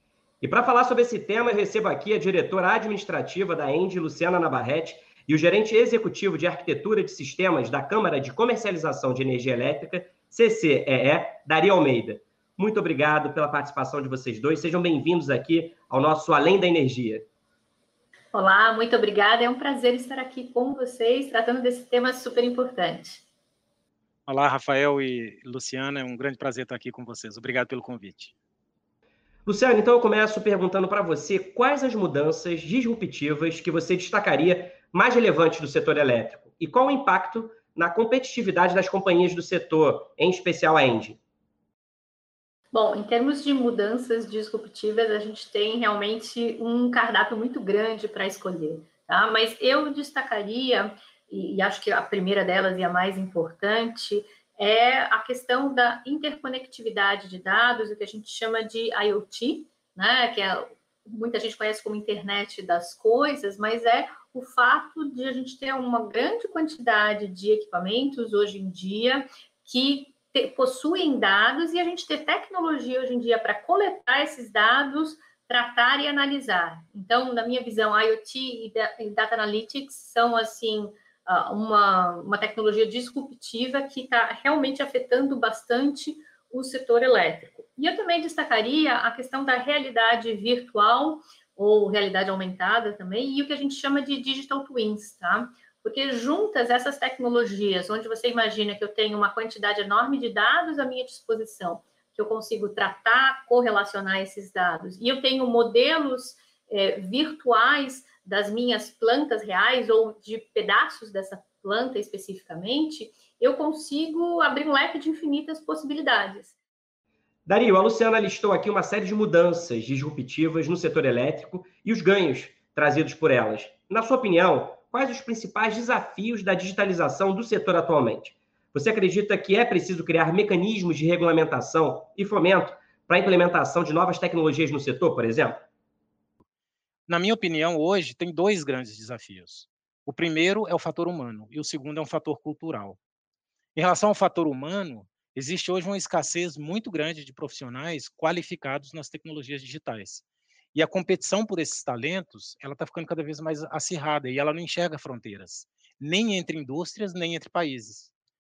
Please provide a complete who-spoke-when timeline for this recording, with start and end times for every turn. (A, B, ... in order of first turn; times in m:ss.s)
0:00.4-0:17.3 A
0:18.3-0:23.2 B
0:24.3-0:28.3 C
0:29.5-0:41.2 A
0:42.7-1:56.6 B
1:57.5-2:15.6 A
2:17.1-2:23.0 C
2:23.8-2:38.1 C